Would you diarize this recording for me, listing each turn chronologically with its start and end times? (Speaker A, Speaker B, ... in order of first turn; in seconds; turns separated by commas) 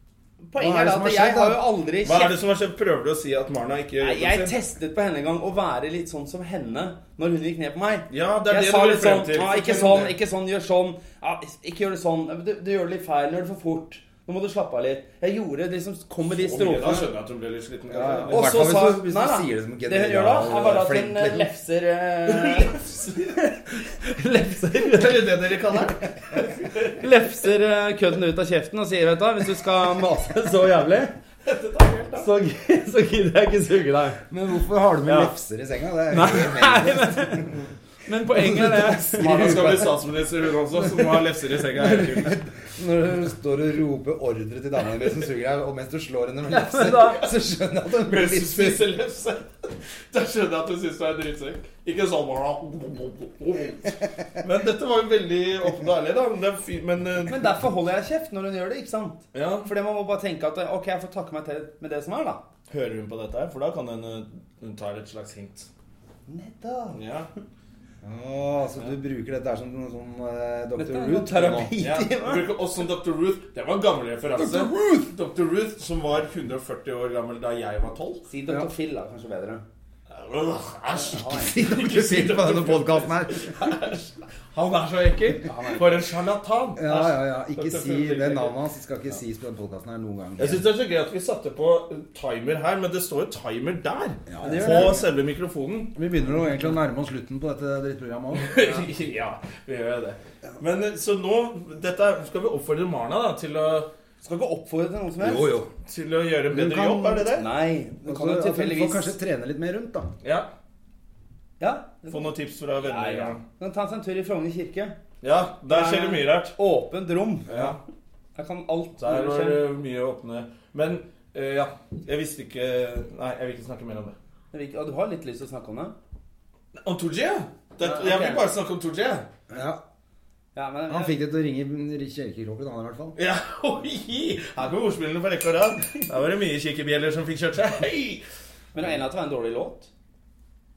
Speaker A: 0.4-2.3, Speaker B: 0.6-1.6, Speaker C: 2.0-4.5, Speaker A: 4.0-17.1, Speaker C: 8.1-10.1, Speaker C: 16.3-18.9, Speaker B: 17.9-21.5, Speaker A: 18.3-25.4, Speaker C: 22.3-23.1, Speaker C: 24.8-27.1, Speaker A: 26.9-31.2, Speaker C: 31.4-32.3, Speaker A: 32.2-34.2, Speaker B: 34.3-37.6, Speaker A: 35.1-35.3, Speaker A: 36.1-37.5, Speaker A: 38.0-39.7, Speaker B: 38.3-40.0, Speaker C: 39.1-42.4, Speaker B: 40.8-48.9, Speaker A: 46.5-47.3, Speaker C: 48.0-57.5, Speaker A: 57.3-62.4, Speaker C: 59.3-59.7, Speaker C: 62.7-65.7, Speaker A: 66.3-67.0, Speaker C: 66.9-67.3, Speaker B: 68.0-71.9, Speaker A: 70.8-72.5, Speaker C: 71.8-78.2, Speaker B: 74.4-75.1, Speaker A: 78.3-79.6, Speaker C: 80.1-88.6, Speaker B: 81.1-83.5, Speaker A: 85.4-86.0, Speaker B: 86.8-90.7, Speaker C: 90.4-95.9, Speaker B: 94.3-95.1, Speaker A: 94.4-95.0, Speaker B: 96.0-98.7, Speaker C: 98.3-103.9, Speaker A: 104.2-105.5, Speaker B: 105.2-105.7, Speaker C: 105.9-107.5, Speaker B: 106.5-107.3, Speaker A: 107.3-109.1, Speaker B: 108.0-110.1, Speaker C: 110.2-110.5, Speaker A: 111.6-115.0, Speaker C: 112.1-113.4, Speaker C: 115.2-116.5, Speaker A: 115.7-117.8, Speaker C: 117.5-117.8, Speaker A: 118.3-119.6, Speaker C: 119.0-124.2, Speaker A: 124.5-125.9, Speaker C: 126.7-129.3, Speaker A: 127.8-128.5, Speaker B: 129.5-129.8, Speaker A: 130.6-131.2, Speaker B: 130.9-133.2, Speaker C: 133.2-138.2, Speaker A: 138.7-139.9